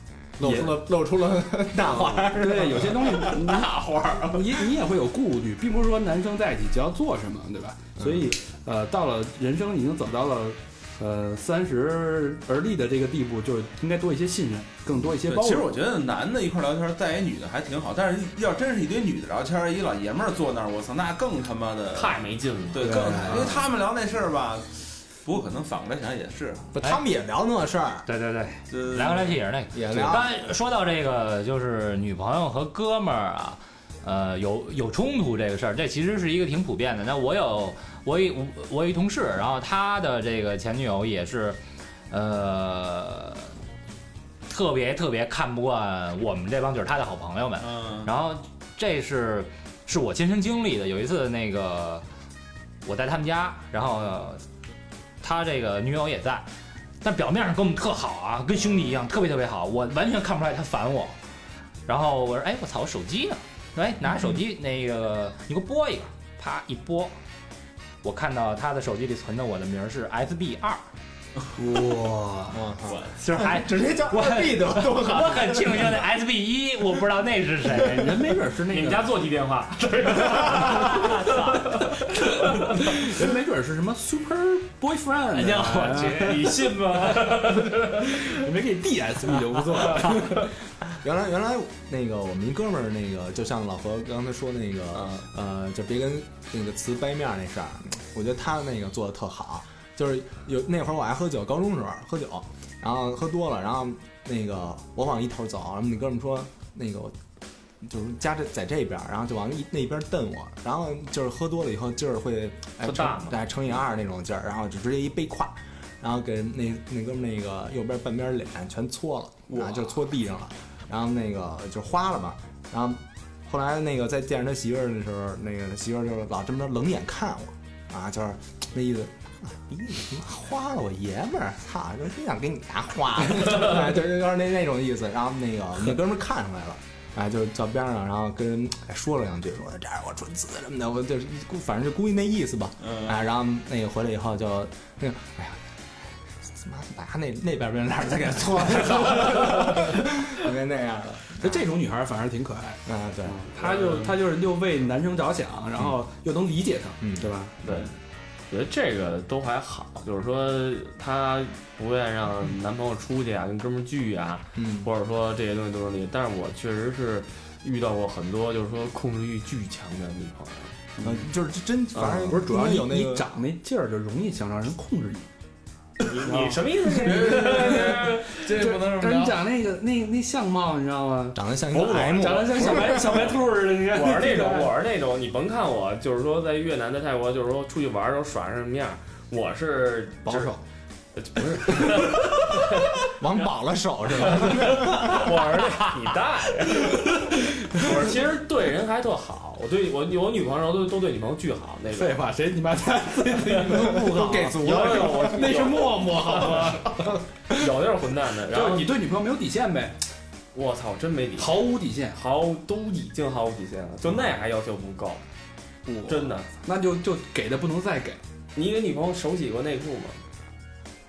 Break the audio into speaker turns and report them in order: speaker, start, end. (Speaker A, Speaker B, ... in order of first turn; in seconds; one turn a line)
Speaker A: 0.4-3.3
Speaker B: 0.4-0.8
Speaker B: 2.1-15.7
Speaker C: 3.1-4.7
Speaker A: 8.0-8.3
Speaker C: 15.2-22.2
Speaker D: 21.9-23.6
Speaker C: 22.7-26.7
Speaker B: 22.8-23.6
Speaker A: 26.7-28.1
Speaker E: 28.1-41.6
Speaker C: 28.7-29.4
Speaker A: 29.7-30.3
Speaker E: 42.1-43.5
Speaker E: 44.5-52.0
Speaker C: 47.6-48.1
Speaker E: 52.8-54.4
Speaker E: 55.2-56.5
Speaker E: 57.0-61.2
Speaker E: 61.9-67.1
Speaker E: 68.0-70.8
Speaker B: 71.5-72.6
Speaker A: 72.5-76.0
Speaker C: 72.8-73.2
Speaker E: 73.2-78.4
Speaker B: 77.7-79.1
Speaker D: 78.7-82.6
Speaker E: 80.3-81.6
Speaker B: 82.4-86.5
Speaker E: 85.3-86.6
Speaker D: 86.1-88.2
Speaker B: 87.1-90.5
Speaker A: 91.0-107.1
Speaker D: 94.9-95.2
Speaker A: 107.8-151.6
Speaker D: 112.8-113.4
Speaker C: 142.8-143.1
Speaker B: 151.4-157.6
Speaker A: 152.8-153.4
Speaker D: 153.6-154.1
Speaker A: 157.0-157.3
Speaker D: 157.6-157.9
Speaker D: 158.5-170.7
Speaker A: 164.6-164.9
Speaker B: 171.0-171.3
Speaker A: 171.0-173.2
Speaker D: 171.9-172.3
Speaker B: 172.2-175.3
Speaker D: 176.0-178.3
Speaker B: 176.2-184.7
Speaker C: 176.9-179.4
Speaker A: 181.3-183.1
Speaker D: 182.2-183.3
Speaker D: 183.9-190.5
Speaker B: 190.2-190.6
Speaker D: 191.1-193.0
Speaker A: 193.0-195.3
Speaker D: 194.2-197.2
Speaker B: 196.7-198.1
Speaker D: 197.7-202.2
Speaker B: 201.9-207.6
Speaker D: 203.3-208.9
Speaker A: 203.6-205.7
Speaker B: 208.5-210.0
Speaker D: 210.5-215.2
Speaker B: 211.4-212.2
Speaker B: 215.8-218.2
Speaker D: 216.0-216.5
Speaker D: 218.5-220.2